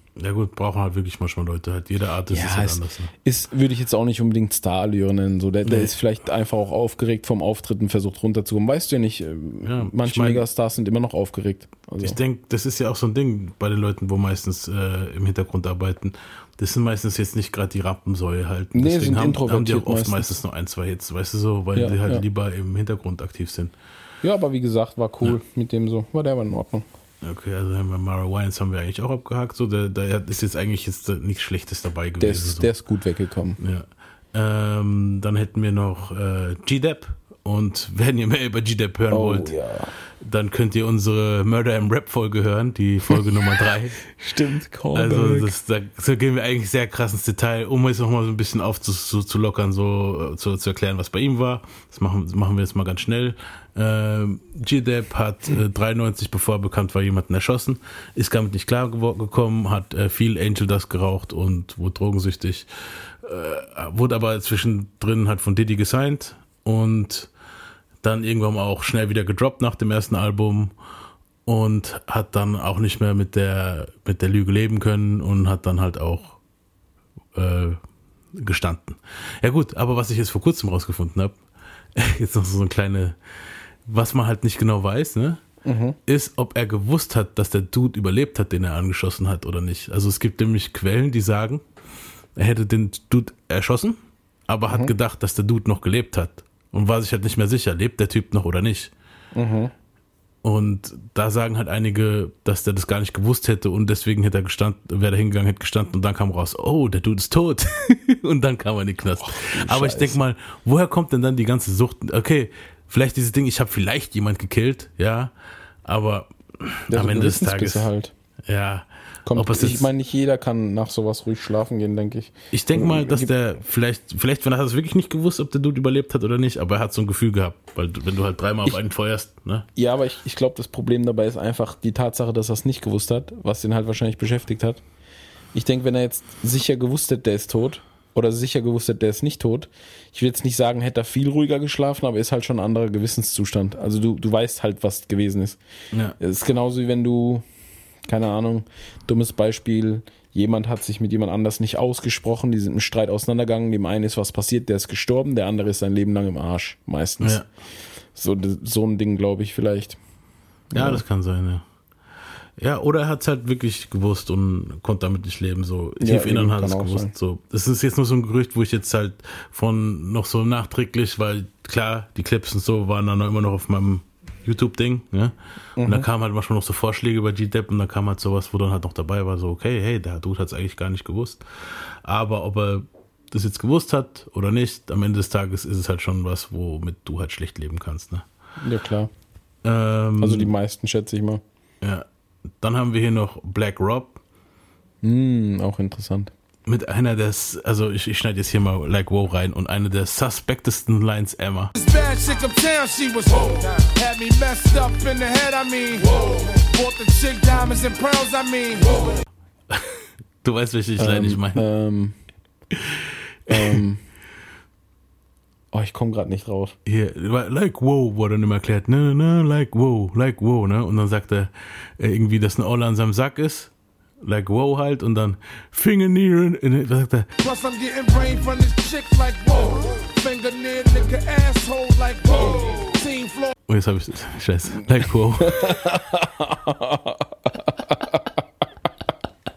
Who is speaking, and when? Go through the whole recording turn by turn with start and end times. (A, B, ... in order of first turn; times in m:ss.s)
0:00.2-0:03.1 A
0:02.3-0:12.2 B
0:05.6-0:05.9 A
0:09.6-0:10.4 A
0:12.0-0:23.7 A
0:18.7-0:20.3 B
0:21.7-0:22.2 B
0:24.2-0:26.8 B
0:27.2-0:32.7 A
0:32.2-0:33.6 B
0:33.6-0:39.5 A
0:39.1-0:39.9 B
0:40.2-0:44.0 A
0:44.2-0:45.5 B
0:44.9-1:07.3 A
1:08.0-1:10.7 A
1:11.4-1:16.4 A
1:17.3-1:17.8 A
1:18.3-1:21.4 A
1:22.0-1:23.2 A
1:23.8-1:25.4 A
1:25.6-1:26.0 B
1:26.1-1:31.6 A
1:32.4-1:34.0 A
1:34.5-1:38.9 A
1:39.3-1:39.7 B
1:40.4-1:55.3 A
1:49.2-1:50.2 B
1:55.8-1:57.9 A
1:56.9-1:58.1 B
1:58.5-1:59.9 A
1:59.2-2:03.3 B
2:02.5-2:09.6 A
2:09.8-2:14.8 B
2:15.5-2:25.6 B
2:26.2-2:27.4 B
2:28.1-2:37.4 B
2:37.2-2:37.4 A
2:38.1-2:40.0 B
2:40.7-2:41.0 B
2:40.7-2:41.6 A
2:42.6-3:08.2 A
2:46.0-2:47.1 B
2:55.8-2:56.0 B
3:08.6-3:09.1 B
3:09.6-3:10.5 A
3:10.2-3:11.4 B
3:12.6-3:14.2 A
3:15.0-3:16.3 B
3:16.7-3:21.7 A
3:21.8-3:26.0 C
3:26.6-3:28.9 C
3:29.7-3:31.6 A
3:31.0-3:32.2 B
3:33.5-3:34.0 B
3:33.5-3:33.8 A
3:35.7-3:36.8 B
3:36.8-3:43.7 A
3:44.2-3:47.3 A
3:47.4-3:53.5 C
3:53.7-3:55.6 A
3:55.4-3:58.4 B